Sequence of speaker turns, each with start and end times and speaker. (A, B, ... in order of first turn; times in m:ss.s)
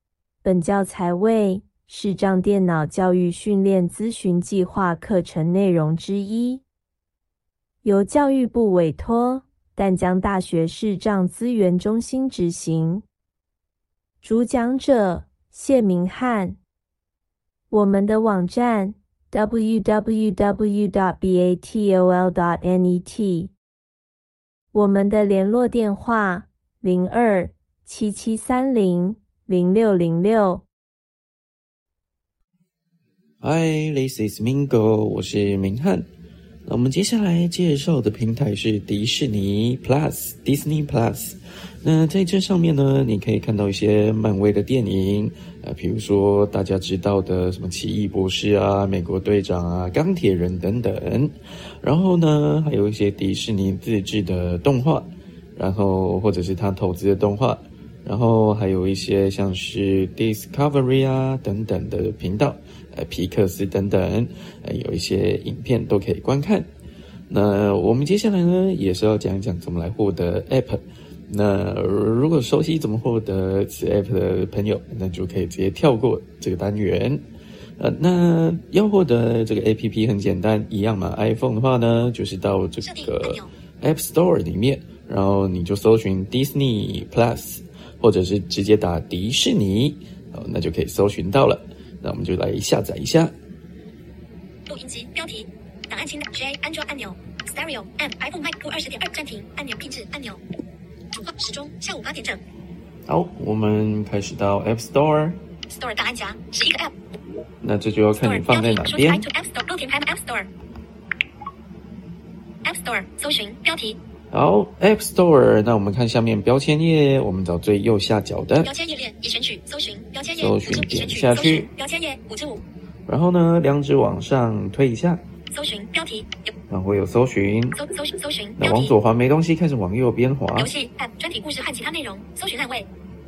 0:00.4-0:06.6 A
0:07.8-0:13.0 A
0:14.2-0:16.6 A
0:17.7-0:23.5 A
0:24.7-0:30.6 A
0:33.4-0:36.1 B
0:36.7-1:06.7 B
1:07.3-1:17.2 B
1:17.8-1:33.3 B
1:22.8-1:23.5 C
1:34.7-1:40.4 C
1:41.1-1:42.4 C
1:43.1-1:45.4 B
1:45.7-1:46.9 C
1:47.6-1:49.2 B
1:48.2-1:50.5 C
1:52.6-1:54.0 C
1:54.3-1:58.7 B
1:58.6-2:02.6 C
2:00.4-2:01.7 B
2:03.1-2:05.2 B
2:05.5-2:06.5 C
2:06.7-2:07.8 B
2:07.7-2:08.9 C
2:08.6-2:10.7 B
2:10.6-2:12.9 C